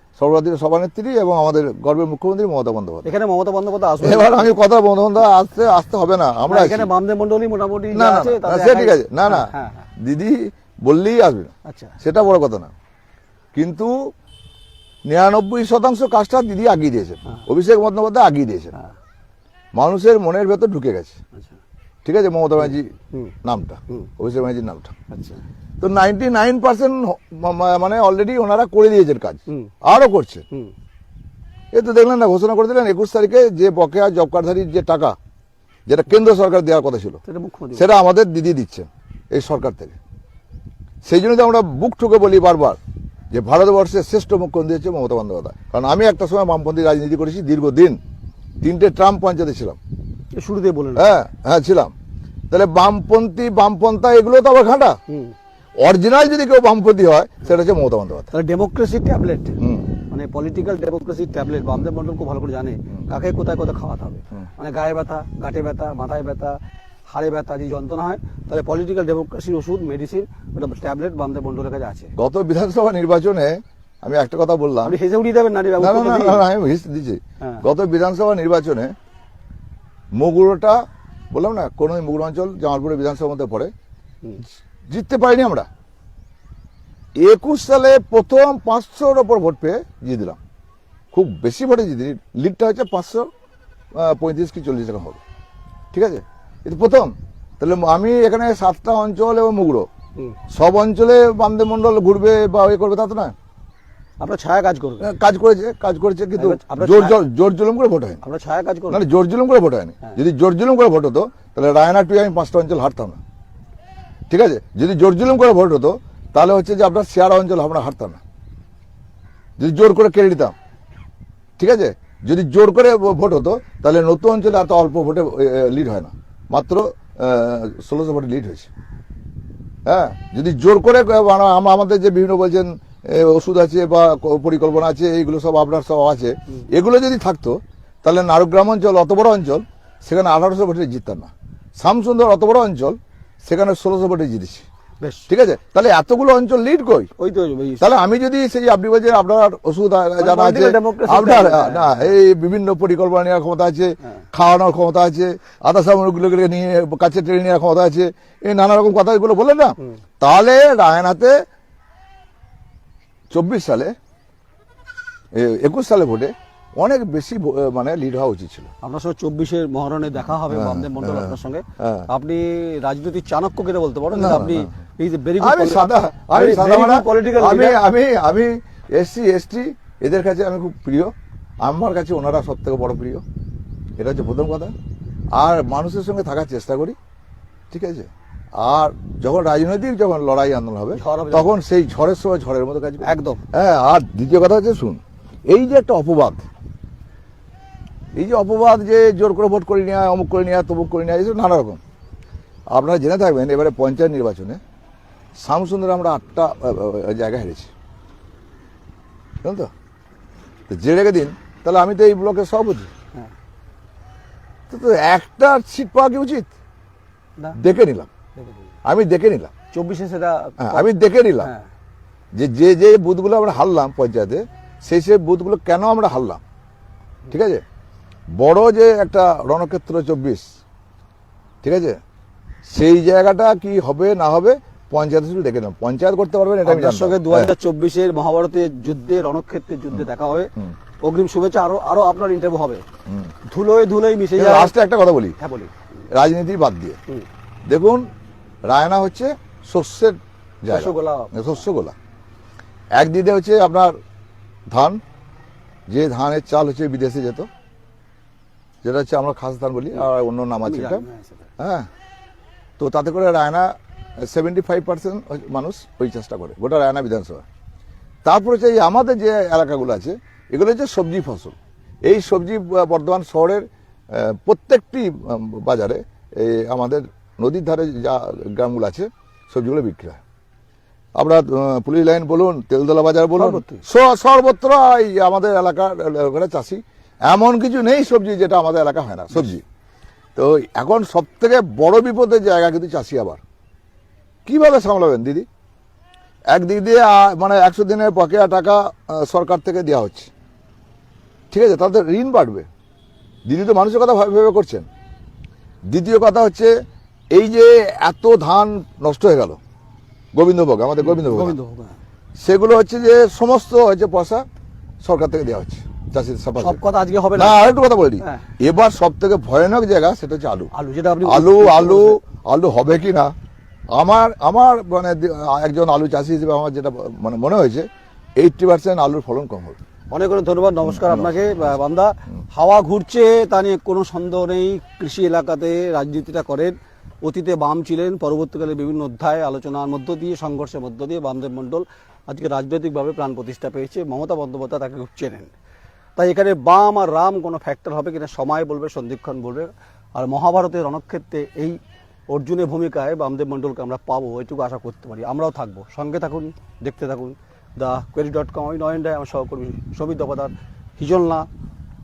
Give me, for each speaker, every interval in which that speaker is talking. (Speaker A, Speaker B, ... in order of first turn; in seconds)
Speaker A: 0.2-3.1, 4.0-6.9, 7.9-12.7, 13.5-14.1, 15.1-18.8, 19.8-21.2, 22.0-24.9, 25.8-30.4, 31.7-35.1, 35.9-37.2, 37.8-40.0, 41.0-42.8, 43.3-48.0, 48.6-49.8, 51.0-51.9, 52.5-55.0, 55.8-58.3, 59.6-59.9, 72.2-75.0, 75.8-78.9, 80.2-80.8, 81.3-83.7, 84.9-85.7, 87.2-90.4, 91.1-93.3, 93.9-95.2, 95.9-99.9, 100.5-103.3, 105.0-108.2, 108.9-113.2, 114.3-118.2, 119.6-120.5, 121.6-128.7, 129.9-144.6, 145.3-147.1, 147.8-161.4, 163.3-163.9, 165.3-168.7, 170.4-172.1, 174.1-174.7, 175.4-183.2, 184.0-184.7, 185.3-187.0, 187.7-196.4, 198.1-201.8, 202.7-204.6, 205.4-207.7, 209.4-209.7, 210.7-212.9, 214.7-216.6, 217.6-218.1, 218.9-219.5, 220.6-221.5, 222.3-226.4, 227.3-227.6, 228.3-230.5, 231.6-232.0, 232.7-237.6, 239.9-240.7, 243.1-243.3, 244.3-245.4, 246.1-247.0, 247.7-248.1, 248.7-251.9, 253.0-253.9, 254.7-255.0, 255.9-257.5, 258.8-261.1, 261.6-261.9, 262.8-267.4, 268.2-280.2, 281.2-289.6, 290.4-293.4, 294.4-295.4, 296.5-300.3, 301.5-302.7, 303.4-304.9, 305.9-306.7, 307.3-309.6, 310.3-311.6, 312.4-314.4, 315.0-316.8, 317.4-320.7, 321.2-323.3, 323.9-329.8, 330.8-331.7
Speaker B: 3.0-4.5, 6.5-9.9, 11.7-11.9, 21.3-21.6, 22.7-23.3, 25.1-25.4, 37.2-37.9, 50.3-51.1, 55.1-55.3, 58.3-59.5, 60.1-66.6, 67.1-72.1, 74.8-76.5, 104.2-105.1, 106.4-107.2, 108.2-109.0, 145.0-145.3, 147.2-147.9, 150.2-152.1, 168.8-177.8, 190.9-191.5, 193.0-193.4, 218.4-218.7, 219.7-221.7, 236.6-240.5, 241.0-242.8, 243.4-244.7, 245.4-245.7, 250.7-251.6, 260.6-261.5, 283.4-283.8, 311.0-312.0, 316.6-317.7, 318.2-318.4, 320.7-322.2, 330.1-345.5, 346.1-351.8, 352.3-361.5